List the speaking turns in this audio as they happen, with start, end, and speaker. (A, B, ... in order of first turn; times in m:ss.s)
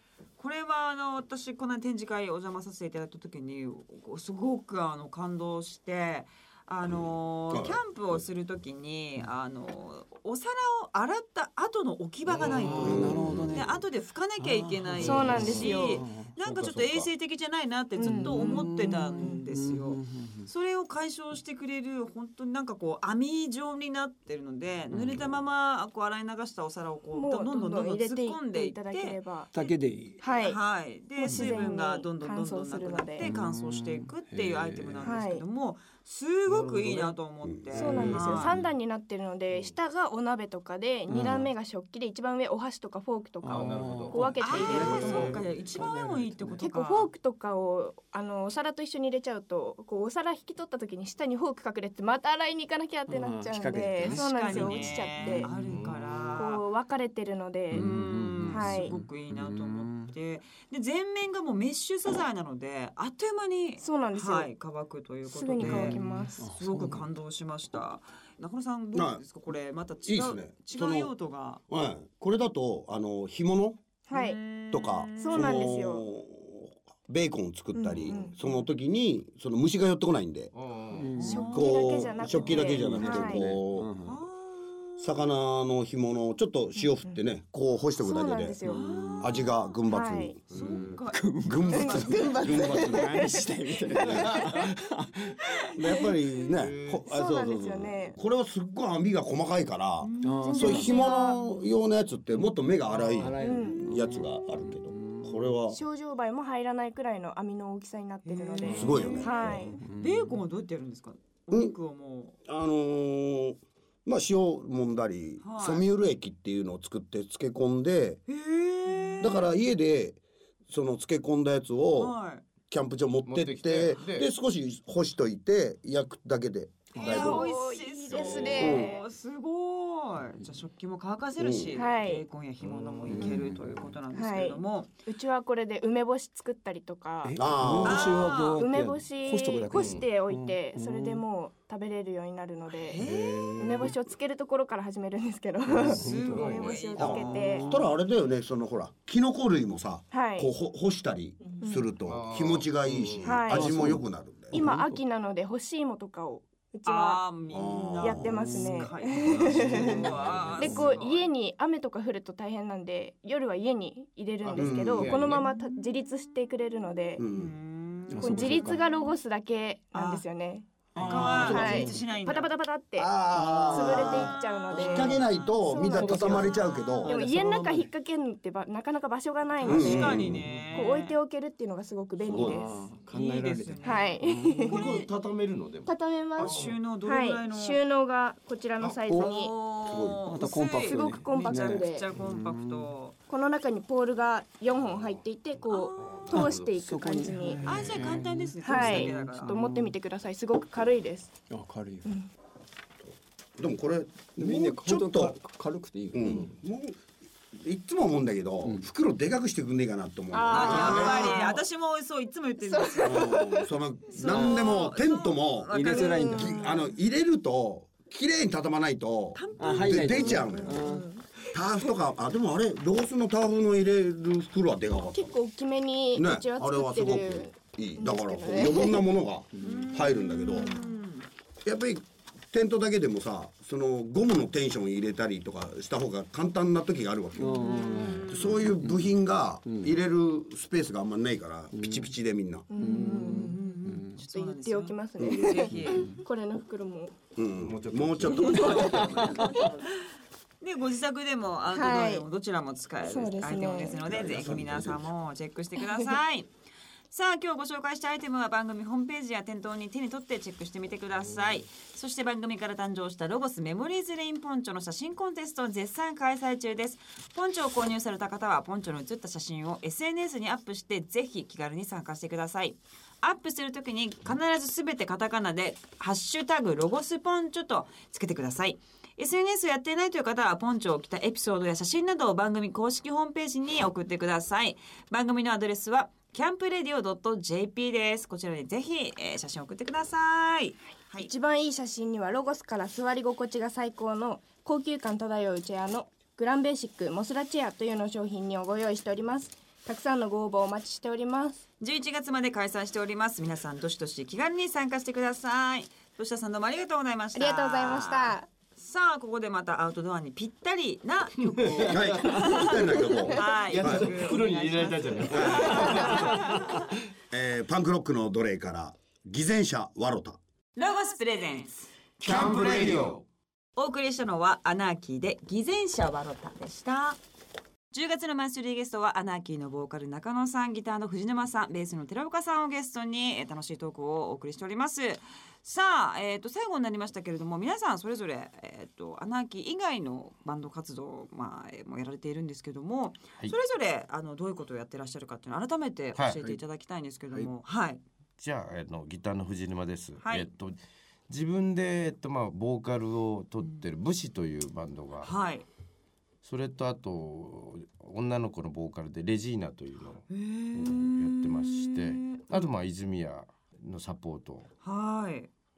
0:00.4-0:29.7 A
0:06.8-0:08.2 B
0:12.3-0:13.8 C
0:12.8-0:13.6 B
0:14.4-0:16.3 C
0:15.0-0:15.8 D
0:15.0-0:16.0 E
0:16.4-0:17.1 D
0:18.0-0:19.4 E
0:18.0-0:20.5 C
0:24.9-0:25.4 C
0:27.1-0:29.5 E
0:29.5-0:30.2 C
0:30.2-0:30.6 E
0:30.3-0:38.6 A
0:31.2-0:33.2 E
0:31.2-0:31.6 C
0:33.2-0:35.2 C
0:35.0-0:35.4 E
0:36.5-0:37.1 C
0:37.7-0:38.7 C
0:37.8-0:45.5 E
0:41.1-0:41.5 C
0:43.4-0:46.6 C
0:43.5-0:44.4 D
0:44.4-0:47.1 A
0:45.0-0:45.3 D
0:46.6-0:55.5 E
0:53.1-0:55.9 C
0:54.0-0:56.6 A
0:55.5-0:56.4 D
0:56.4-0:57.9 E
0:57.7-1:00.1 C
0:57.7-1:11.6 A
0:58.5-0:58.9 E
1:03.8-1:04.5 E
1:05.2-1:06.4 E
1:05.6-1:07.0 C
1:08.9-1:09.2 B
1:10.0-1:11.1 B
1:11.7-1:13.8 B
1:14.1-1:14.4 E
1:14.1-1:15.7 A
1:14.7-1:20.5 B
1:15.2-1:16.0 E
1:17.8-1:18.4 E
1:20.5-1:21.1 D
1:20.9-1:24.2 C
1:21.2-1:22.0 A
1:21.2-1:23.5 E
1:21.5-1:23.9 B
1:24.0-1:25.3 A
1:25.0-1:28.6 B
1:28.0-1:28.9 E
1:28.6-1:29.3 C
1:28.6-1:29.7 A
1:29.2-1:30.6 B
1:29.8-1:30.4 E
1:30.5-1:35.4 C
1:30.5-1:32.4 A
1:31.4-1:33.4 B
1:31.7-1:34.5 E
1:33.9-1:34.2 B
1:34.2-1:34.6 A
1:35.4-1:36.7 A
1:35.7-1:45.8 B
1:37.0-1:38.2 E
1:40.0-1:41.4 A
1:40.2-1:41.1 C
1:40.4-1:41.5 E
1:42.8-1:45.5 C
1:43.4-1:43.8 E
1:45.7-1:49.8 E
1:48.2-1:52.4 A
1:48.6-1:50.4 C
1:48.6-1:49.7 B
1:52.4-1:58.2 B
1:55.4-1:55.8 A
1:58.3-1:59.5 A
1:59.0-1:59.3 E
1:59.2-2:02.1 B
2:02.0-2:02.4 A
2:02.7-2:07.5 B
2:03.2-2:04.3 D
2:06.9-2:14.9 A
2:07.0-2:09.0 E
2:08.1-2:08.9 B
2:11.4-2:11.8 B
2:11.7-2:12.2 E
2:12.6-2:14.0 C
2:14.1-2:17.9 E
2:17.2-2:21.2 C
2:17.4-2:18.3 B
2:17.8-2:18.6 A
2:18.6-2:23.0 E
2:19.7-2:20.0 D
2:22.7-2:23.5 A
2:23.0-2:24.0 C
2:23.6-2:27.8 E
2:25.7-2:26.6 C
2:25.8-2:27.1 D
2:25.8-2:27.6 A
2:27.0-2:34.6 B
2:27.3-2:27.9 C
2:30.1-2:30.5 E
2:31.6-2:31.9 E
2:32.0-2:33.4 D
2:33.2-2:34.0 E
2:33.4-2:35.0 C
2:34.5-2:37.2 E
2:36.8-2:41.2 A
2:37.5-2:38.6 B
2:38.0-2:47.2 E
2:38.3-2:40.0 C
2:39.2-2:40.5 B
2:40.2-2:40.6 D
2:40.6-2:40.9 C
2:44.5-2:45.4 C
2:44.5-2:45.2 B
2:44.9-2:45.4 D
2:47.2-2:47.5 B
2:47.3-2:49.1 A
2:48.1-2:48.9 C
2:48.2-3:02.7 E
2:49.9-2:50.2 A
2:50.9-2:52.0 C
2:51.0-2:52.5 A
2:53.0-2:57.1 B
2:53.3-2:55.2 C
2:54.1-2:57.2 A
2:56.0-2:56.5 C
2:57.0-2:57.9 C
2:59.6-3:01.2 A
2:59.6-3:00.9 C
2:59.6-3:00.4 B
3:02.2-3:04.7 C
3:02.3-3:02.6 B
3:02.3-3:05.1 A
3:03.8-3:04.9 E
3:04.6-3:06.7 D
3:05.8-3:09.5 E
3:06.4-3:07.8 A
3:09.0-3:09.3 C
3:09.1-3:13.2 A
3:09.9-3:10.2 B
3:10.2-3:12.9 C
3:10.8-3:12.0 E
3:13.3-3:17.9 E
3:15.7-3:16.5 A
3:16.0-3:16.7 D
3:16.8-3:20.0 C
3:17.6-3:19.6 A
3:18.6-3:21.4 E
3:21.5-3:22.1 C
3:23.6-3:25.4 B
3:24.4-3:26.6 C
3:26.1-3:27.0 B
3:27.5-3:31.5 B
3:28.6-3:28.9 C
3:30.3-3:31.6 E
3:30.5-3:33.4 A
3:30.7-3:31.4 C
3:32.6-3:33.7 E
3:33.0-3:40.8 B
3:34.1-3:36.9 A
3:35.7-3:36.6 C
3:35.8-3:36.8 E
3:39.3-3:41.1 A
3:39.6-3:41.1 C
3:40.6-3:41.2 E
3:41.5-3:45.3 B
3:45.0-3:49.0 E
3:46.1-3:50.8 B
3:49.5-3:49.9 C
3:49.6-3:51.3 A
3:50.5-3:50.8 E
3:51.6-3:57.7 B
3:57.4-3:59.1 C
3:57.5-3:58.7 A
3:58.3-4:02.7 B
3:59.6-3:59.9 C
4:01.7-4:02.1 C
4:02.7-4:03.7 E
4:02.8-4:04.2 C
4:02.8-4:06.2 A
4:04.3-4:07.2 E
4:05.2-4:06.0 B
4:05.8-4:06.2 C
4:07.4-4:09.4 B
4:07.6-4:09.6 D
4:08.3-4:09.7 E
4:08.4-4:09.7 A
4:09.1-4:09.7 C
4:10.6-4:16.5 A
4:11.7-4:12.3 E
4:13.0-4:14.0 E
4:14.0-4:15.0 B
4:17.1-4:51.3 A
4:51.2-5:01.6 E
5:01.8-5:16.8 A
5:07.3-5:08.5 E
5:11.6-5:12.6 D
5:11.8-5:14.2 B
5:13.7-5:16.6 D
5:15.4-5:16.5 B
5:17.3-5:20.4 B
5:20.8-5:21.9 A
5:22.2-5:23.2 D
5:22.3-5:23.0 B
5:23.8-5:27.2 A
5:27.9-5:48.0 A
5:48.4-5:50.8 D
5:50.2-5:50.5 A
5:51.3-5:55.3 D
5:55.2-5:55.6 A
5:56.4-6:04.7 D
6:00.3-6:02.7 A
6:04.8-6:05.5 A